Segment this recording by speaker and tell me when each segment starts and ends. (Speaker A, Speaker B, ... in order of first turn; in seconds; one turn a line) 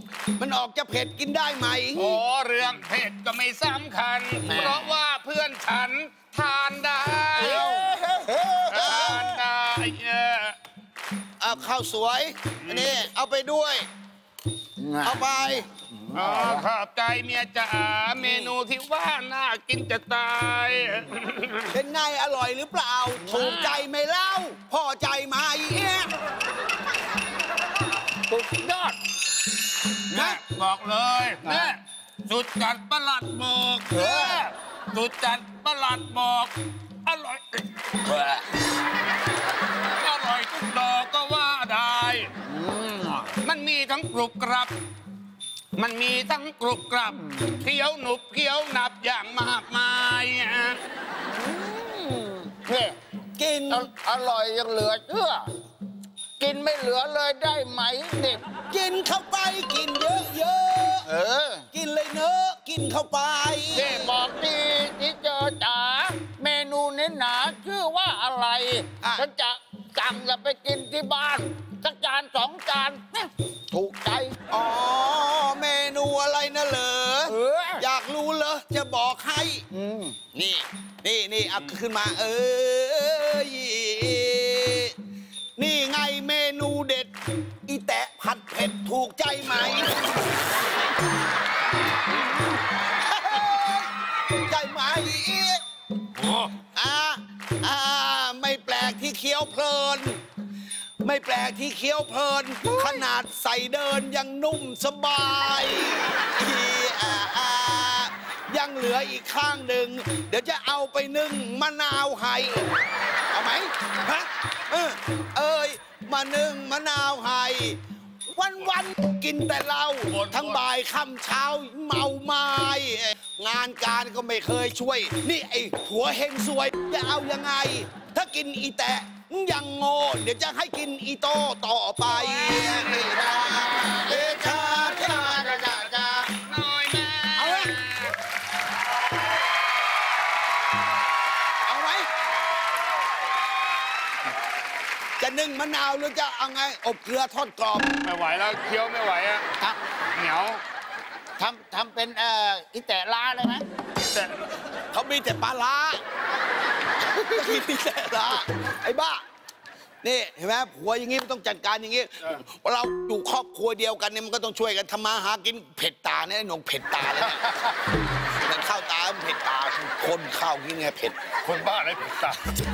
Speaker A: 0.4-2.2
Speaker B: 1.9-7.8
Speaker C: 4.4-5.0
Speaker A: 7.4-8.0
Speaker C: 7.4-9.4
Speaker B: 8.7-10.6
Speaker A: 8.7-9.3
Speaker A: 11.4-13.9
Speaker B: 12.6-13.0
Speaker C: 14.8-16.7
Speaker A: 15.0-15.7
Speaker B: 16.1-21.7
Speaker A: 18.2-18.5
Speaker A: 21.7-26.1
Speaker C: 23.2-23.7
Speaker B: 23.4-23.8
Speaker C: 28.3-29.0
Speaker B: 30.1-38.4
Speaker A: 30.1-30.4
Speaker C: 33.9-34.4
Speaker B: 39.6-42.3
Speaker C: 42.4-43.3
Speaker B: 43.4-44.7
Speaker B: 45.7-50.8
Speaker C: 51.1-53.0
Speaker A: 53.4-53.9
Speaker C: 53.7-55.5
Speaker C: 56.4-58.4
Speaker A: 58.7-61.1
Speaker C: 61.0-61.6
Speaker A: 61.7-64.1
Speaker C: 63.7-74.4
Speaker A: 74.5-79.6
Speaker C: 77.3-77.8
Speaker C: 79.7-80.2
Speaker A: 80.3-84.9
Speaker A: 85.6-87.1
Speaker A: 87.7-90.0
Speaker A: 92.9-95.6
Speaker B: 96.2-96.5
Speaker A: 96.6-100.2
Speaker A: 101.0-112.7
Speaker C: 102.7-102.9
Speaker A: 113.3-135.6
Speaker B: 120.1-120.6
Speaker B: 132.2-132.8
Speaker C: 132.8-136.2
Speaker B: 135.3-138.1
Speaker A: 137.3-137.8
Speaker A: 141.6-142.1
Speaker A: 145.2-147.9
Speaker B: 148.0-149.5
Speaker B: 150.1-150.6
Speaker C: 151.4-153.6
Speaker A: 154.9-156.0
Speaker A: 157.2-159.2
Speaker A: 160.0-167.4
Speaker B: 167.3-167.7
Speaker A: 168.4-171.2
Speaker B: 171.4-172.6